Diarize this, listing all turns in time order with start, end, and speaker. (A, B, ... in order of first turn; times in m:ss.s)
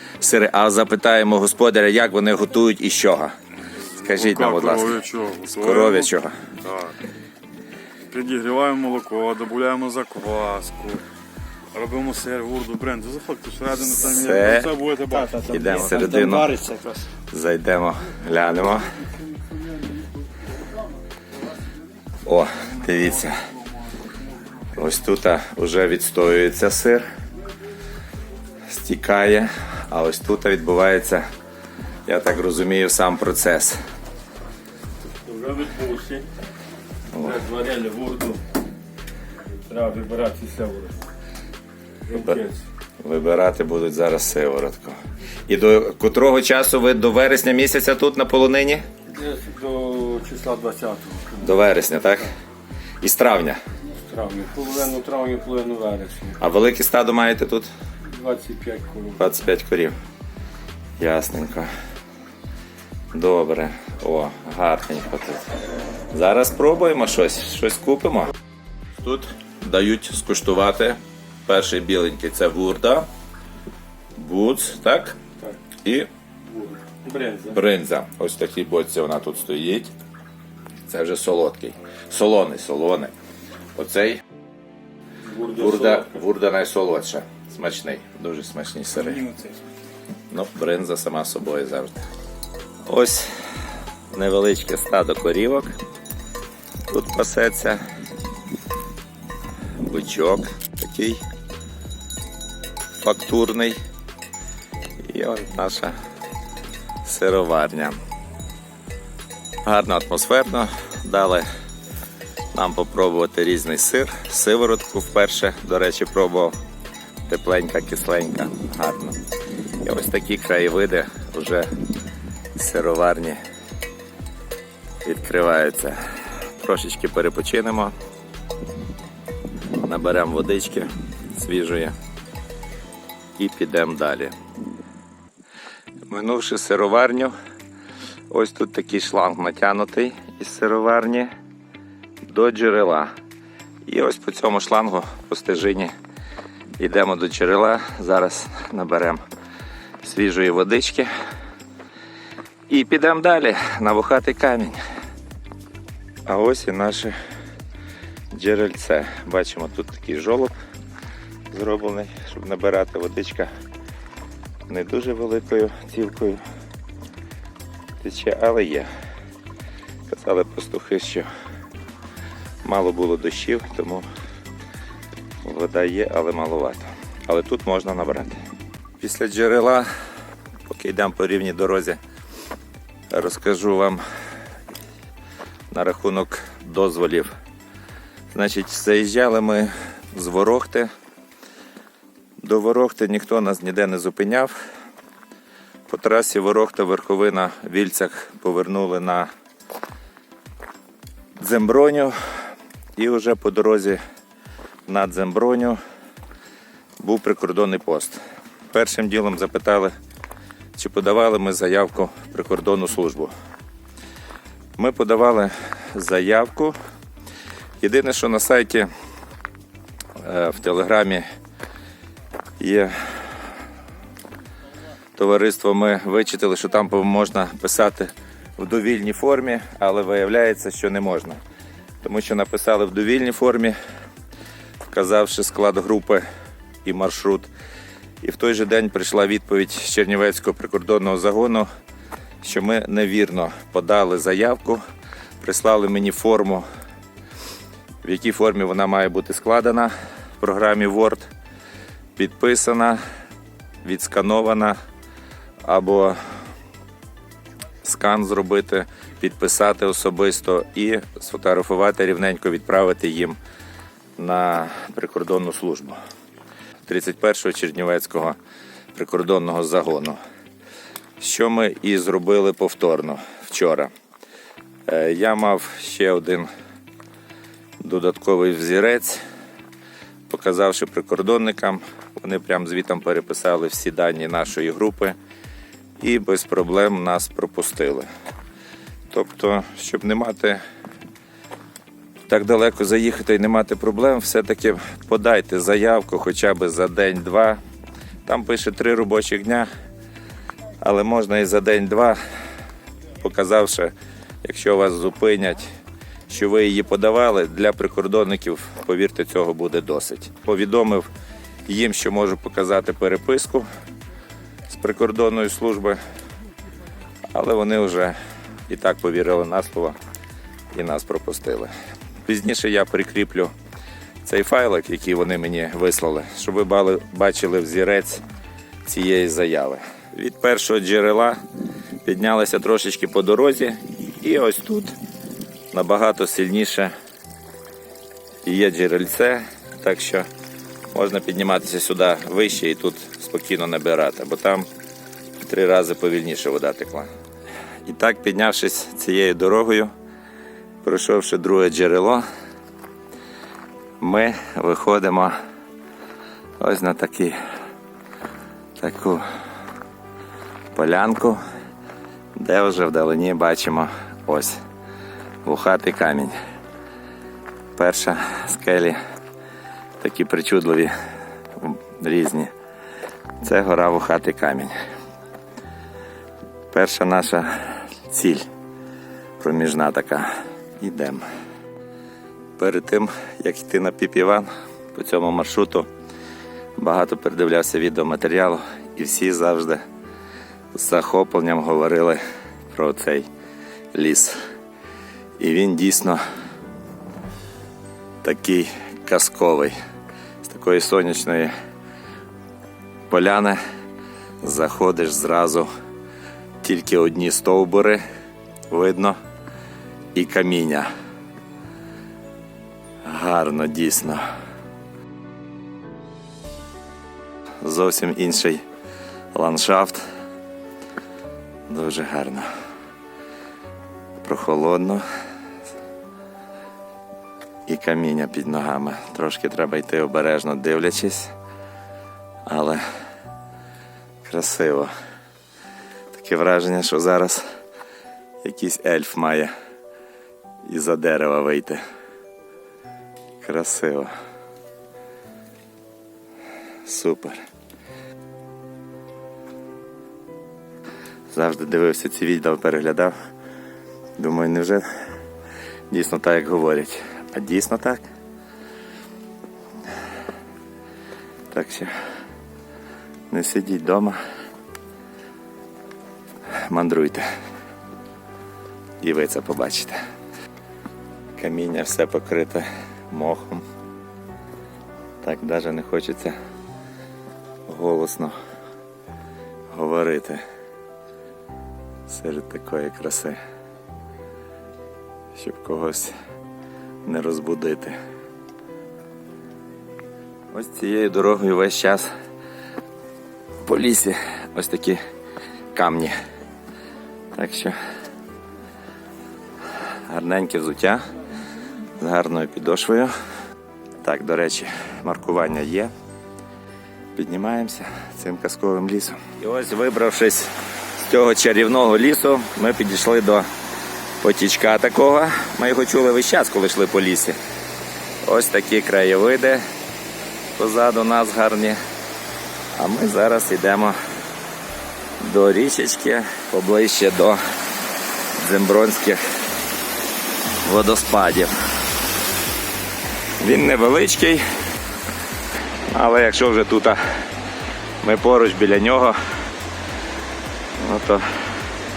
0:00.2-0:03.3 A
0:04.0-0:06.1 B
0:04.0-0:05.0 A
0:05.5-0:06.3 A
0:06.6-0:06.9 B
0:08.1-0:11.0 B
0:11.7-0:15.4 B
0:14.0-0:14.7 A
0:15.1-0:17.1 C
0:15.4-0:16.5 A
0:17.3-0:19.0 A
0:19.1-0:20.4 D
0:22.2-0:23.4 A
0:24.8-0:27.1 A
0:28.7-0:31.2 A
0:32.1-0:33.8 A
0:35.0-0:36.3 D
0:37.1-0:37.4 A
0:37.1-0:38.4 D
0:39.6-0:41.0 D
0:42.1-0:42.6 D
0:42.1-0:42.4 A
0:43.0-0:48.8 A
0:49.1-0:51.6 D
0:51.4-0:52.3 A
0:53.0-0:53.6 A
0:53.8-0:56.4 D
0:56.4-0:57.7 A
0:58.1-0:59.2 D
0:59.2-1:00.0 A
1:01.0-1:01.7 A
1:03.1-1:05.5 A
1:06.1-1:08.3 A
1:09.0-1:13.1 A
1:14.2-1:15.2 A
1:15.8-1:16.1 A
1:16.4-1:17.6 D
1:17.5-1:19.9 A
1:20.9-1:23.1 A
1:23.8-1:24.2 A
1:25.2-1:26.2 D
1:25.6-1:29.2 A
1:29.0-1:29.6 C
1:30.3-1:32.0 A
1:32.9-1:33.3 A
1:34.1-1:35.8 A
1:36.9-1:37.8 A
1:39.8-1:41.2 A
1:43.0-1:43.8 A
1:45.1-1:46.0 A
1:47.0-1:48.0 A
1:49.6-1:51.5 A
1:52.5-1:56.6 A
1:57.3-1:59.2 A
1:59.8-2:01.7 A
2:02.6-2:03.4 A
2:05.0-2:06.0 A
2:06.6-2:07.9 A
2:09.8-2:12.0 A
2:13.4-2:14.3 A
2:16.1-2:17.3 A
2:18.3-2:21.3 A
2:22.3-2:23.1 A
2:23.8-2:25.9 A
2:26.8-2:29.2 A
2:30.0-2:31.1 A
2:32.7-2:34.8 A
2:36.3-2:37.2 A
2:38.3-2:40.6 A
2:41.5-2:43.5 A
2:44.7-2:46.4 A
2:48.0-2:48.9 A
2:50.1-2:51.3 A
2:52.6-2:54.1 A
2:55.4-2:58.4 A
2:59.0-2:59.9 A
3:00.7-3:02.0 A
3:03.1-3:04.0 A
3:05.7-3:07.3 A
3:08.3-3:10.9 A
3:12.4-3:14.5 A
3:15.9-3:19.3 A
3:21.4-3:22.2 A
3:23.0-3:24.0 A
3:24.9-3:25.8 A
3:27.0-3:28.2 A
3:28.7-3:29.9 A
3:30.8-3:33.3 A
3:34.8-3:36.8 A
3:37.8-3:38.9 A
3:40.2-3:41.2 A
3:42.6-3:43.2 A
3:45.2-3:51.4 A
3:52.0-3:53.8 A
3:54.8-3:56.3 A
3:56.8-3:57.5 A
3:58.2-4:01.7 A
4:02.4-4:04.8 A
4:05.4-4:06.7 A
4:08.0-4:11.3 A
4:12.2-4:13.0 A
4:13.8-4:14.8 A
4:15.6-4:16.2 A
4:17.8-4:23.4 A
4:24.2-4:26.0 A
4:26.9-4:28.4 A
4:29.0-4:30.2 A
4:31.2-4:33.9 A
4:34.9-4:36.5 A
4:37.8-4:39.2 A
4:40.3-4:45.2 A
4:46.0-4:48.1 A
4:49.1-4:50.6 A
4:52.3-4:57.6 A
4:58.3-4:59.7 A
5:00.8-5:02.2 A
5:03.2-5:05.7 A
5:06.3-5:11.1 A
5:11.7-5:13.7 A
5:14.7-5:16.0 A
5:17.3-5:18.2 A
5:18.7-5:20.0 A
5:20.7-5:21.7 A
5:22.2-5:23.5 A
5:24.2-5:28.2 A
5:28.8-5:31.4 A
5:32.0-5:35.0 A
5:35.7-5:36.9 A
5:38.4-5:40.3 A
5:40.9-5:44.7 A
5:45.4-5:47.1 A
5:47.8-5:49.9 A
5:50.8-5:52.2 A
5:54.0-5:55.4 A
5:56.6-5:57.4 A
5:58.8-5:59.2 A
6:00.7-6:01.4 A
6:02.4-6:04.6 A
6:05.4-6:06.4 A
6:07.8-6:09.0 A
6:10.0-6:10.9 A
6:11.6-6:12.5 A
6:13.4-6:14.7 A
6:16.7-6:18.5 A
6:19.4-6:21.3 A
6:22.6-6:25.9 A
6:26.8-6:29.8 A
6:30.7-6:33.3 A
6:33.9-6:34.4 A
6:35.4-6:36.2 A
6:38.2-6:39.8 A
6:40.4-6:41.5 A
6:43.1-6:43.6 A
6:44.4-6:45.7 A
6:46.6-6:48.0 A
6:48.7-6:49.2 A
6:50.2-6:50.9 A
6:53.0-6:54.2 A
6:57.6-6:58.6 A
6:59.3-7:00.0 A
7:01.7-7:02.5 A
7:04.2-7:05.0 A
7:07.7-7:11.3 A
7:12.5-7:12.8 A
7:14.2-7:14.9 A
7:16.1-7:17.4 A
7:18.4-7:19.5 A
7:20.7-7:21.8 A
7:23.4-7:24.1 A
7:26.8-7:27.4 A
7:31.3-7:33.2 A
7:34.2-7:34.9 A
7:35.9-7:38.1 A
7:41.5-7:41.9 A
7:43.3-7:44.2 A
7:46.6-7:47.3 A
7:49.0-7:50.0 A
7:51.4-7:53.6 A
7:55.2-7:56.4 A
7:57.7-7:58.4 A
7:59.7-8:00.4 A
8:02.1-8:03.4 A
8:05.4-8:06.1 A
8:07.1-8:08.0 A
8:10.5-8:12.1 A
8:13.6-8:15.0 A
8:15.7-8:16.1 A
8:17.4-8:17.8 A
8:20.1-8:21.0 A
8:22.0-8:23.1 A
8:24.0-8:25.9 A
8:27.2-8:33.5 A
8:34.2-8:37.4 A
8:38.2-8:39.6 A
8:40.6-8:41.8 A
8:42.8-8:44.0 A
8:45.2-8:47.4 A
8:48.4-8:49.2 A
8:50.6-8:51.5 A
8:53.4-8:54.4 A
8:55.9-8:57.0 A
8:58.0-8:59.2 A
9:00.8-9:01.3 A